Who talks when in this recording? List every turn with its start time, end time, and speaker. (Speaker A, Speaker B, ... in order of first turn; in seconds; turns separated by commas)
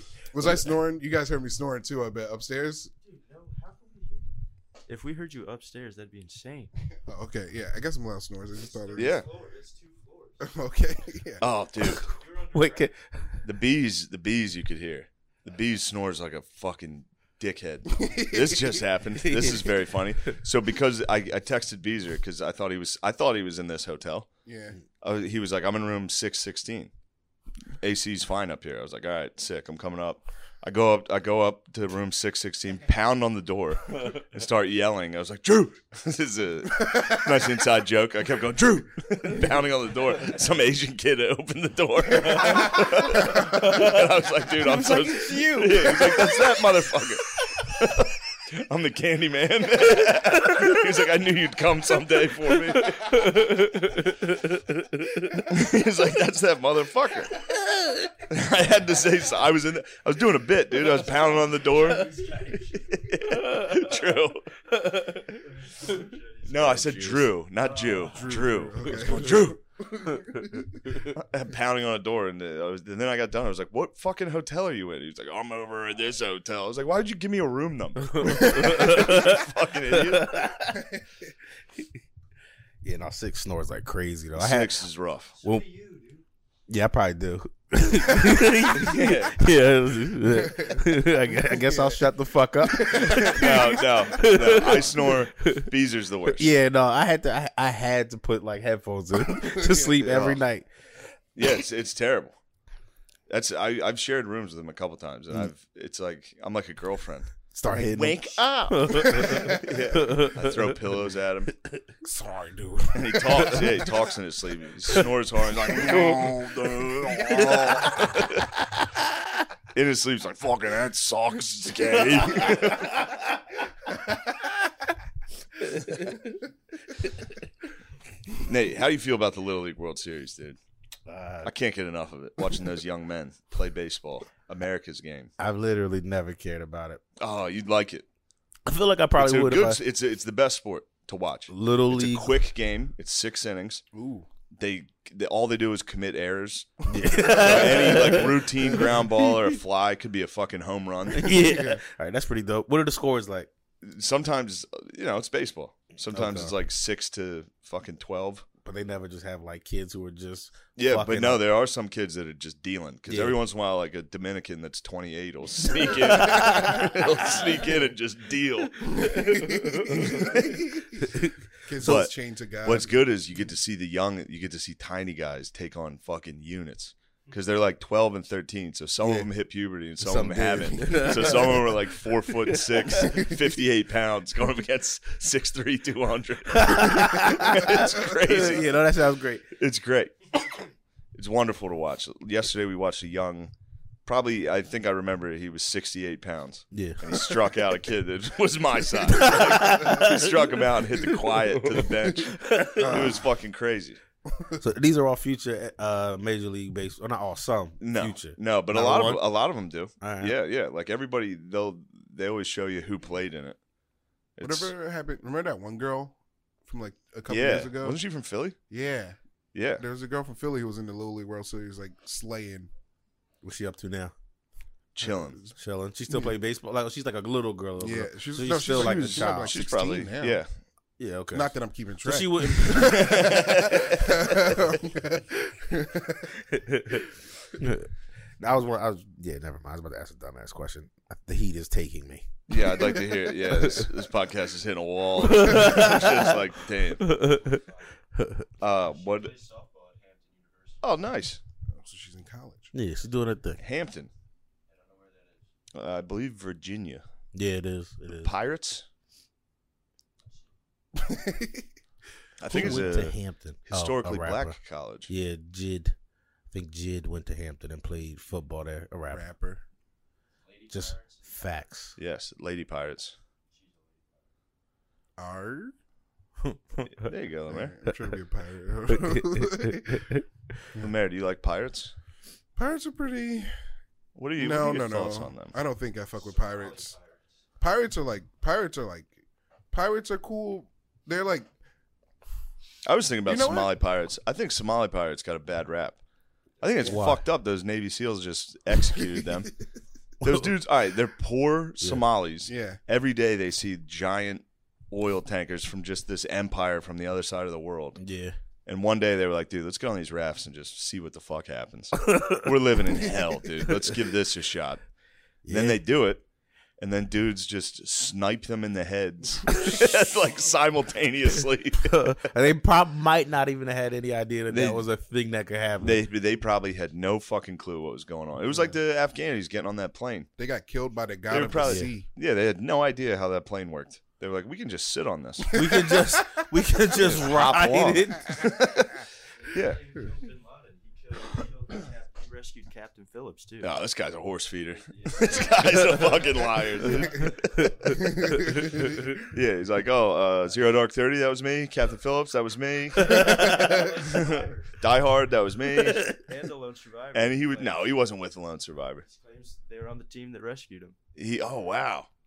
Speaker A: 0.3-2.9, Speaker B: 3.0-4.3, Speaker B: 4.9-6.7, Speaker A: 7.0-9.2, Speaker B: 8.7-10.5, Speaker C: 9.0-9.3, Speaker A: 10.4-11.4, Speaker C: 11.4-12.1, Speaker D: 11.8-13.4, Speaker B: 12.0-12.9, Speaker C: 13.4-24.3, Speaker A: 17.9-18.8, Speaker D: 19.2-19.7, Speaker A: 24.5-24.8, Speaker C: 25.0-26.9, Speaker C: 27.8-53.4, Speaker D: 43.6-43.9, Speaker D: 44.6-46.5, Speaker D: 52.9-55.2, Speaker C: 55.4-57.5, Speaker D: 57.7-58.0, Speaker C: 58.3-62.3, Speaker B: 60.9-63.2, Speaker C: 62.9-64.5, Speaker D: 64.8-65.2, Speaker B: 65.3-68.5, Speaker C: 66.5-69.6, Speaker A: 68.0-70.9, Speaker C: 71.0-80.4, Speaker D: 78.1-80.9, Speaker D: 82.8-84.8, Speaker C: 84.4-85.4, Speaker B: 85.4-86.2, Speaker D: 86.7-95.7, Speaker C: 88.8-89.4, Speaker A: 90.3-92.0, Speaker A: 92.7-93.8, Speaker C: 93.0-96.5, Speaker D: 96.3-100.7, Speaker A: 99.3-100.3, Speaker C: 100.1-100.4, Speaker C: 101.4-102.4, Speaker C: 103.3-111.5, Speaker D: 107.5-110.6, Speaker A: 112.0-113.6, Speaker C: 112.9-118.5, Speaker D: 113.3-113.8, Speaker D: 115.8-118.8, Speaker A: 115.8-116.3, Speaker C: 119.7-123.0, Speaker D: 122.4-123.2, Speaker D: 125.6-126.2, Speaker C: 128.4-130.6, Speaker D: 131.1-131.5, Speaker C: 131.4-135.3, Speaker D: 135.4-137.0, Speaker C: 137.2-138.1, Speaker D: 138.7-139.8, Speaker C: 139.2-143.8, Speaker D: 141.5-142.3, Speaker A: 143.9-144.3, Speaker C: 144.6-151.5, Speaker D: 146.9-149.0, Speaker A: 147.0-147.7, Speaker D: 151.2-153.5, Speaker A: 151.3-151.8, Speaker C: 153.8-158.4, Speaker D: 156.1-156.5, Speaker D: 158.7-161.4, Speaker C: 160.8-170.7, Speaker D: 163.1-163.4, Speaker D: 165.9-167.1, Speaker A: 169.0-170.9, Speaker D: 169.0-170.0, Speaker A: 171.7-172.9, Speaker C: 171.8-188.8, Speaker D: 180.0-182.9, Speaker A: 183.0-183.4, Speaker D: 186.5-189.5, Speaker C: 189.6-190.2, Speaker C: 191.1-193.5, Speaker C: 194.1-204.0, Speaker D: 196.7-197.0, Speaker D: 199.1-200.6, Speaker D: 201.1-203.1, Speaker A: 202.8-203.2, Speaker A: 204.3-204.6, Speaker D: 204.6-209.2, Speaker C: 207.8-213.6, Speaker D: 210.0-210.3, Speaker C: 214.4-214.7, Speaker A: 214.4-218.0, Speaker C: 217.3-218.6, Speaker A: 218.7-219.2, Speaker C: 219.5-219.8, Speaker A: 219.8-222.7, Speaker D: 223.4-224.1, Speaker C: 224.9-225.4, Speaker A: 225.0-225.6, Speaker D: 225.6-229.7, Speaker A: 226.1-226.3, Speaker A: 227.8-230.4, Speaker C: 228.8-230.5, Speaker D: 231.0-233.7, Speaker A: 231.3-236.3, Speaker C: 232.7-234.3, Speaker D: 236.5-237.1, Speaker D: 237.6-237.9, Speaker D: 238.4-242.3, Speaker C: 242.5-247.2, Speaker D: 242.8-243.9, Speaker D: 245.2-246.2, Speaker D: 247.0-247.6, Speaker B: 247.1-247.9, Speaker D: 248.2-248.4, Speaker C: 248.6-249.3, Speaker B: 248.6-250.8, Speaker C: 250.8-251.4, Speaker A: 251.7-252.7, Speaker D: 252.7-253.6, Speaker C: 253.6-254.1, Speaker B: 254.7-255.5, Speaker C: 255.7-257.0, Speaker D: 257.3-258.3, Speaker C: 258.2-258.9, Speaker A: 260.9-261.7, Speaker C: 262.4-265.1, Speaker D: 262.5-264.6, Speaker D: 265.1-265.9, Speaker D: 266.5-269.2, Speaker A: 269.1-269.6, Speaker B: 270.5-271.4, Speaker D: 270.7-272.0, Speaker C: 272.0-273.2, Speaker B: 273.6-274.0, Speaker A: 275.2-275.7, Speaker D: 276.5-276.9, Speaker C: 276.9-277.8, Speaker A: 277.5-280.1, Speaker D: 278.9-280.2, Speaker C: 280.8-281.9, Speaker A: 282.6-283.5, Speaker C: 284.2-285.5, Speaker A: 284.4-286.9, Speaker B: 286.3-287.2, Speaker A: 287.6-289.2, Speaker A: 289.7-291.5, Speaker C: 292.9-296.0, Speaker A: 293.3-293.7, Speaker C: 296.6-299.5, Speaker D: 296.8-297.2, Speaker C: 300.2-308.0, Speaker A: 302.5-302.8, Speaker D: 308.0-308.4, Speaker C: 308.7-314.8, Speaker D: 315.4-315.8, Speaker C: 315.5-316.2, Speaker C: 316.8-322.1, Speaker D: 319.5-319.8, Speaker D: 321.9-326.0, Speaker C: 324.5-324.8, Speaker C: 325.8-330.3, Speaker A: 330.4-332.1, Speaker C: 331.3-335.6, Speaker A: 335.5-336.4, Speaker D: 335.5-338.5, Speaker C: 337.0-339.0, Speaker B: 339.4-343.8, Speaker C: 339.5-339.8, Speaker C: 343.6-347.5, Speaker B: 344.7-348.6, Speaker D: 347.4-347.8, Speaker A: 348.0-349.0, Speaker C: 348.7-356.1, Speaker D: 353.1-353.8, Speaker B: 353.1-354.8, Speaker D: 355.9-356.1, Speaker B: 356.1-358.0, Speaker C: 357.1-359.1, Speaker B: 359.0-361.0, Speaker C: 361.2-362.1